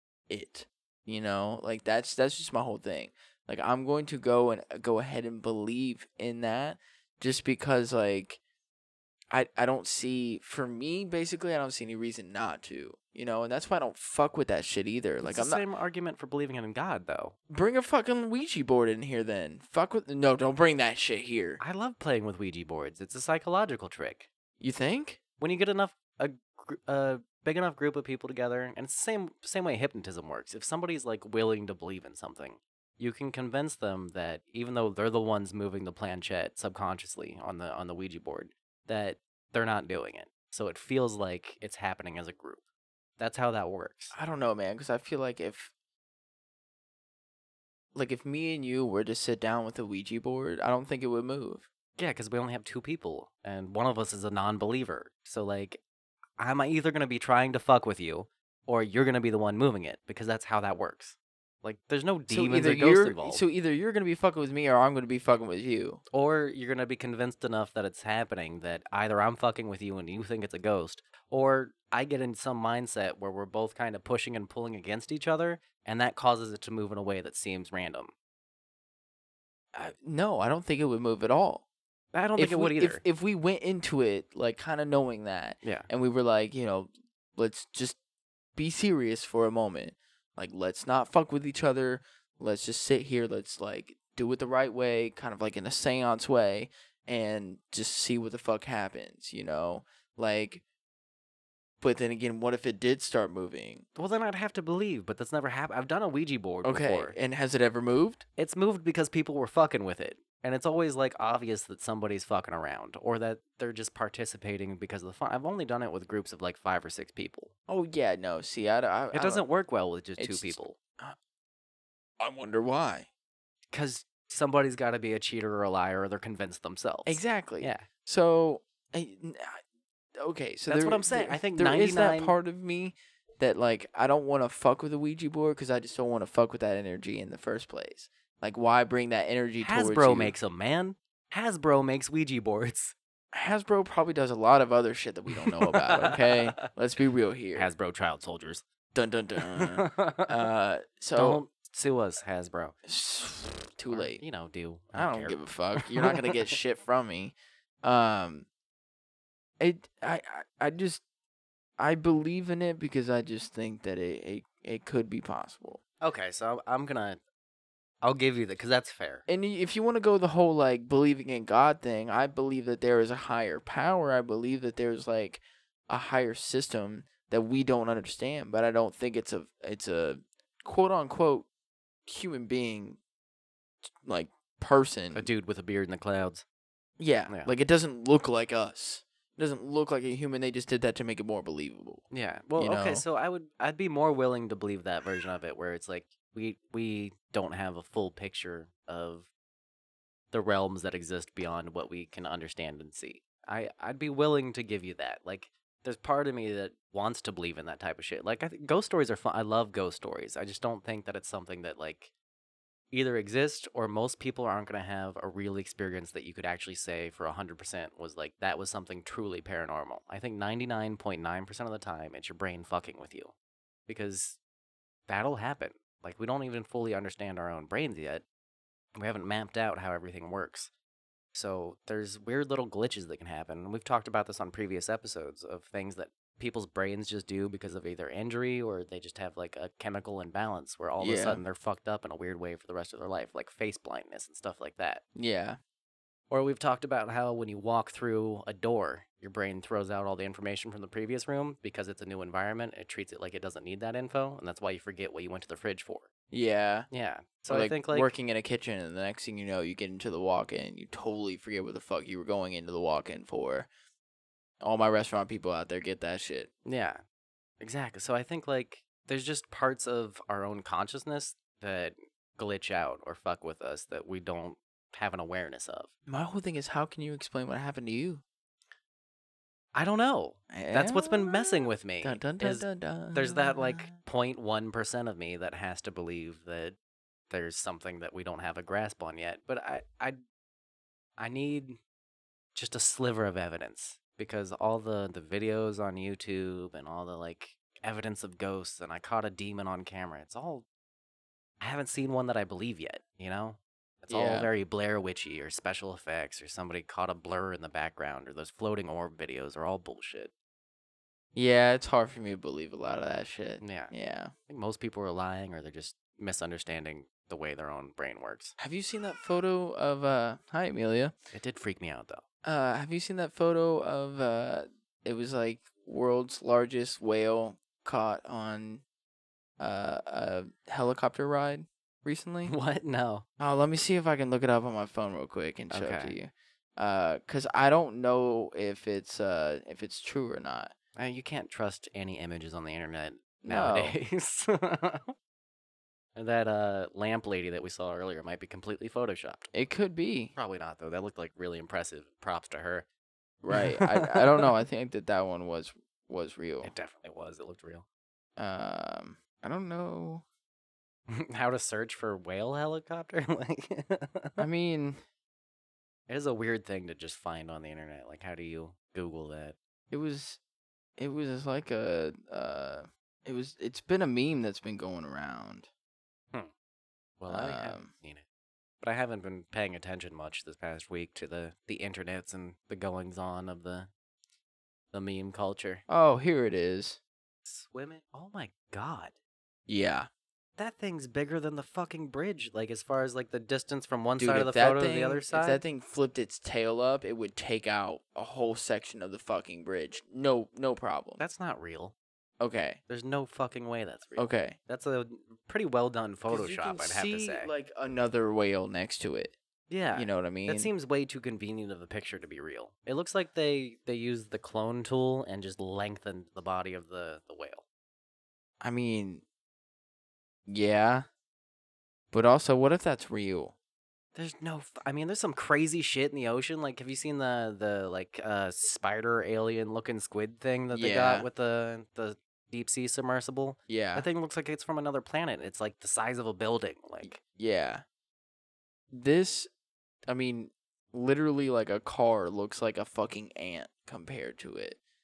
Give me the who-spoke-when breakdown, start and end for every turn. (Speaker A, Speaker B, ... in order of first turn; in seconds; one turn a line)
Speaker A: 0.3-8.4
Speaker A: 9.3-15.6
Speaker B: 15.2-17.3
Speaker A: 17.5-21.6
Speaker B: 21.6-24.3
Speaker A: 24.6-25.2
Speaker B: 25.4-42.6
Speaker B: 43.2-44.1
Speaker A: 44.1-45.7
Speaker A: 47.9-51.6
Speaker B: 52.0-55.8
Speaker B: 56.4-63.4
Speaker A: 62.3-66.0
Speaker B: 66.1-78.1
Speaker A: 79.7-81.6
Speaker B: 82.1-83.0
Speaker A: 82.4-88.0
Speaker B: 85.6-85.9
Speaker A: 88.5-100.6
Speaker A: 101.8-103.8
Speaker B: 104.0-107.2
Speaker A: 106.6-108.2
Speaker B: 108.4-117.5
Speaker A: 117.7-119.4
Speaker B: 119.1-120.8
Speaker A: 120.2-121.2
Speaker A: 122.2-123.1
Speaker B: 123.7-127.9
Speaker A: 127.0-129.6
Speaker A: 130.2-140.3
Speaker B: 130.7-132.3
Speaker B: 139.6-142.9
Speaker A: 143.3-147.7
Speaker B: 145.5-146.7
Speaker B: 147.5-148.6
Speaker A: 148.9-151.4
Speaker B: 149.4-150.3
Speaker B: 151.1-152.7
Speaker A: 152.8-154.2
Speaker B: 153.9-156.3
Speaker A: 154.9-158.5
Speaker A: 159.6-161.0
Speaker A: 161.8-165.8
Speaker B: 166.0-167.2
Speaker B: 168.0-169.2
Speaker A: 169.3-181.4
Speaker A: 182.1-183.0
Speaker A: 184.0-185.3
Speaker B: 185.1-186.4
Speaker A: 187.0-192.0
Speaker B: 192.1-199.3
Speaker A: 192.6-193.0
Speaker B: 200.3-212.1
Speaker B: 212.9-223.3
Speaker B: 223.9-224.4
Speaker B: 225.1-228.2
Speaker B: 228.9-230.7
Speaker B: 231.3-245.0
Speaker A: 241.0-241.4
Speaker A: 245.2-245.6
Speaker B: 246.3-256.1
Speaker A: 256.3-256.9
Speaker B: 256.9-258.1
Speaker A: 257.5-263.7
Speaker A: 264.6-266.5
Speaker B: 266.6-267.0
Speaker B: 267.6-275.9
Speaker A: 276.1-278.2
Speaker B: 279.7-286.8
Speaker A: 280.5-283.9
Speaker B: 287.3-290.2
Speaker B: 291.2-291.8
Speaker B: 292.5-300.6
Speaker B: 301.6-310.3
Speaker A: 304.1-304.5
Speaker A: 311.3-314.3
Speaker B: 313.6-313.9
Speaker B: 314.5-318.5
Speaker A: 318.6-321.1
Speaker B: 321.3-322.2
Speaker A: 322.4-328.8
Speaker A: 329.6-332.5
Speaker B: 332.4-333.2
Speaker A: 333.4-340.7
Speaker B: 335.7-336.1
Speaker B: 340.9-345.1
Speaker A: 343.4-344.0
Speaker B: 346.1-349.5
Speaker A: 349.5-350.3
Speaker B: 350.4-352.9
Speaker A: 353.4-356.7
Speaker B: 353.5-354.5
Speaker B: 356.6-357.9
Speaker A: 358.4-360.2
Speaker B: 361.1-364.4
Speaker A: 364.4-365.0
Speaker B: 366.1-369.6
Speaker A: 369.9-370.4
Speaker A: 371.0-375.7
Speaker B: 377.2-378.2
Speaker A: 377.3-377.9
Speaker B: 378.8-383.9
Speaker B: 384.9-385.8
Speaker A: 385.9-387.0
Speaker B: 387.4-389.1
Speaker A: 389.7-390.1
Speaker B: 390.6-395.6
Speaker A: 394.2-401.2
Speaker B: 401.2-401.9
Speaker A: 402.4-402.8
Speaker B: 402.9-407.5
Speaker A: 404.1-404.6
Speaker A: 406.3-409.4
Speaker B: 409.7-417.6
Speaker A: 409.9-410.7
Speaker A: 418.6-419.2
Speaker A: 420.5-421.1
Speaker A: 422.1-423.5
Speaker B: 424.1-437.2
Speaker A: 430.7-431.3
Speaker A: 433.7-434.1
Speaker A: 437.0-437.8
Speaker A: 438.9-439.5
Speaker A: 440.1-444.8